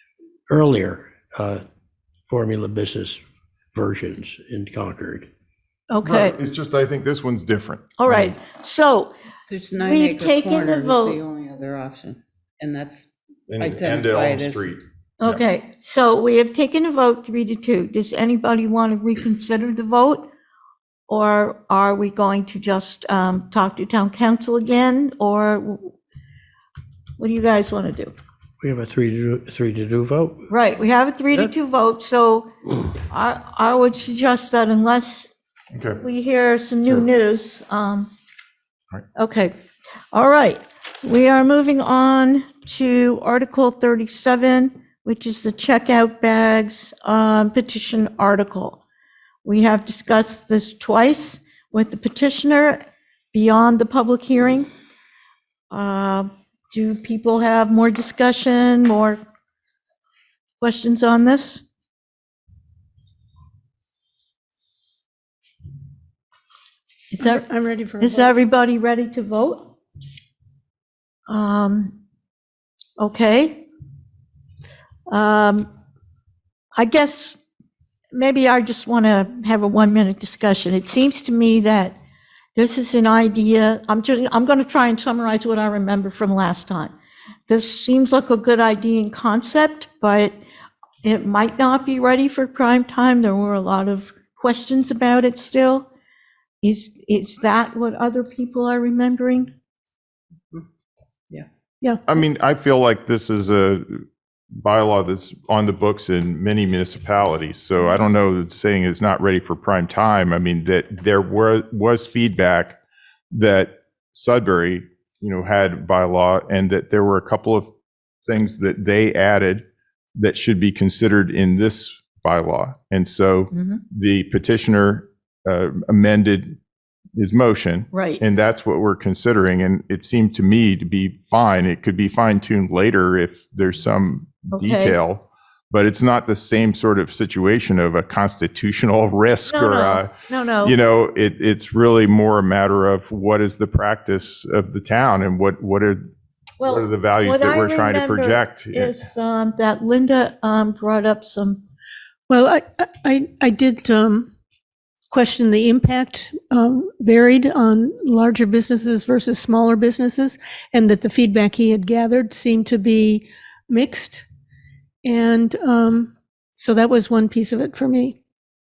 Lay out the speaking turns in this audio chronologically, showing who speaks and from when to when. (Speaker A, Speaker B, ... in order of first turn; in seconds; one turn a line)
Speaker A: 0.5-1.6
Speaker A: 2.3-3.2
Speaker A: 3.7-5.3
Speaker B: 5.9-6.4
Speaker C: 6.0-8.0
Speaker B: 8.0-9.1
Speaker D: 9.5-14.7
Speaker B: 9.8-11.2
Speaker C: 13.5-15.4
Speaker B: 15.2-20.3
Speaker B: 21.1-25.9
Speaker B: 27.2-28.1
Speaker A: 28.6-30.5
Speaker B: 30.5-32.5
Speaker B: 33.1-35.3
Speaker C: 35.7-36.0
Speaker B: 36.0-38.1
Speaker B: 39.2-39.5
Speaker B: 40.1-48.8
Speaker B: 49.5-52.8
Speaker B: 53.3-54.7
Speaker B: 55.7-59.2
Speaker B: 60.6-61.6
Speaker B: 67.1-67.5
Speaker E: 67.2-68.3
Speaker B: 68.0-69.7
Speaker B: 71.3-72.0
Speaker B: 73.0-73.7
Speaker B: 75.1-75.7
Speaker B: 76.8-77.4
Speaker B: 78.1-82.0
Speaker B: 82.6-87.0
Speaker B: 87.5-90.3
Speaker B: 91.0-95.9
Speaker B: 96.6-99.5
Speaker C: 102.1-112.8
Speaker C: 113.3-117.7
Speaker C: 118.2-126.6
Speaker B: 123.5-123.8
Speaker C: 127.2-146.1
Speaker B: 127.9-128.2
Speaker B: 134.5-135.0
Speaker B: 139.5-140.8
Speaker B: 146.6-151.6
Speaker C: 146.6-149.0
Speaker E: 152.3-154.3
Speaker E: 155.1-164.2
Speaker E: 165.1-168.2